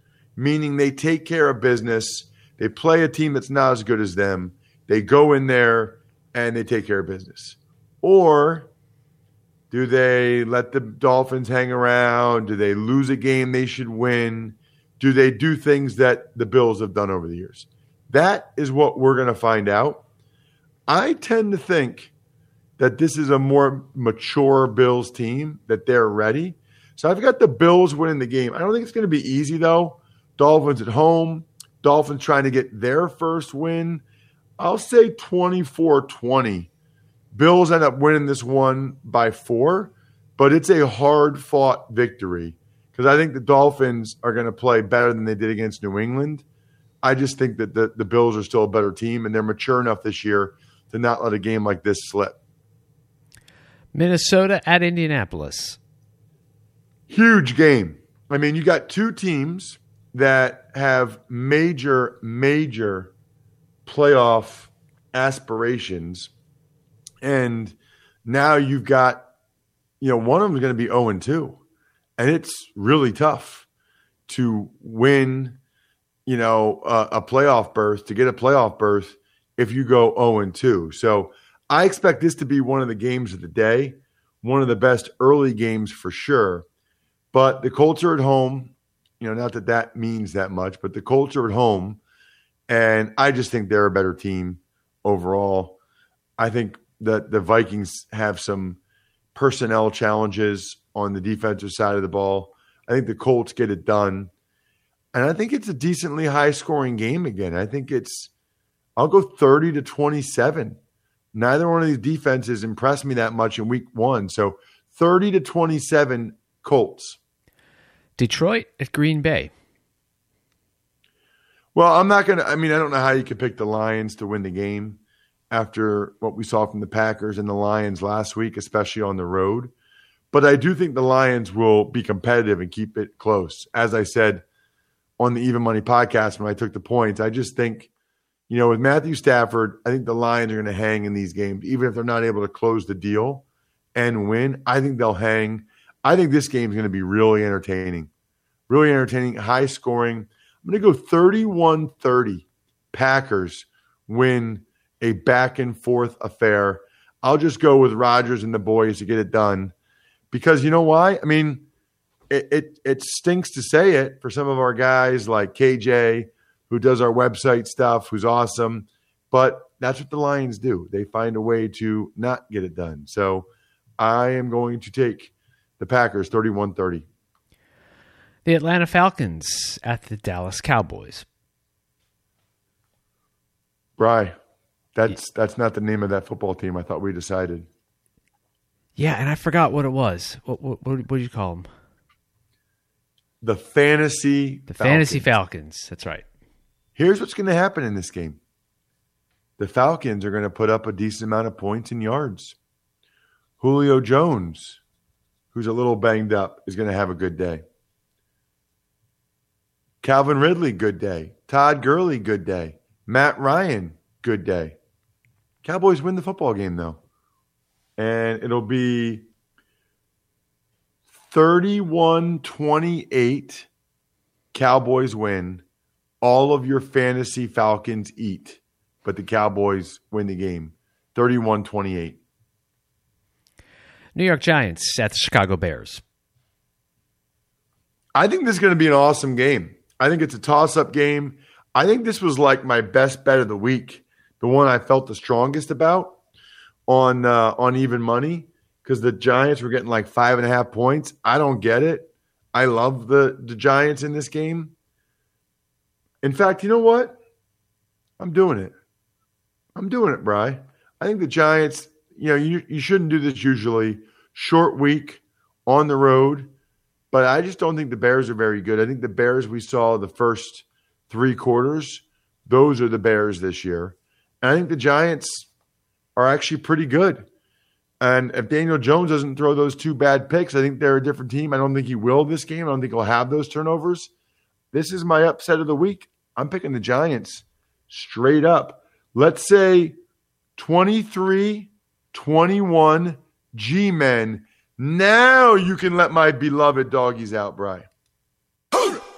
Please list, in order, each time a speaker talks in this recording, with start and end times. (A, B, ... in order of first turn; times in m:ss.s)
0:00.4-0:08.7 A
0:09.7-0:20.0 A
0:20.9-0:22.1 A
0:22.8-0:34.0 A
0:34.6-0:36.7 A
0:37.3-0:46.4 A
0:47.0-0:52.4 A
0:53.9-0:55.8 B
0:57.1-1:03.1 A
1:03.9-1:06.3 A
1:07.2-1:07.7 A
1:08.2-1:09.2 A
1:10.0-1:11.6 A
1:12.2-1:13.6 A
1:14.3-1:15.6 A
1:16.2-1:26.6 A
1:27.3-1:32.0 A
1:32.7-1:35.8 A
1:36.4-1:38.8 A
1:39.4-1:44.3 A
1:45.1-1:48.3 A
1:49.0-1:50.8 A
1:51.3-1:57.2 A
1:58.2-1:59.5 B
2:01.7-2:05.0 A
2:05.5-2:09.7 A
2:10.3-2:14.4 A
2:15.2-2:17.9 A
2:18.5-2:28.1 A
2:28.7-2:39.7 A
2:40.3-2:41.6 A
2:42.3-2:53.5 A
2:54.0-2:57.0 A
2:58.4-3:01.2 B
3:04.0-3:04.4 A
3:04.9-3:07.7 A
3:09.0-3:11.7 B
3:13.4-3:15.3 A
3:14.7-3:16.2 B
3:17.0-3:18.4 A
3:19.6-3:22.6 A
3:23.6-3:24.8 A
3:25.5-3:27.6 A
3:30.0-3:34.8 A
3:35.6-3:37.0 A
3:38.0-3:39.2 A
3:41.3-3:43.7 A
3:44.5-3:45.6 A
3:46.2-3:52.2 A
3:54.1-3:56.0 B
3:58.1-4:06.2 A
4:06.9-4:14.7 A
4:16.2-4:17.2 A
4:18.2-4:18.7 A
4:19.7-4:26.5 A
4:27.1-4:35.5 A
4:36.2-4:37.2 A
4:38.0-4:44.1 A
4:44.7-4:49.9 A
4:50.6-4:57.9 A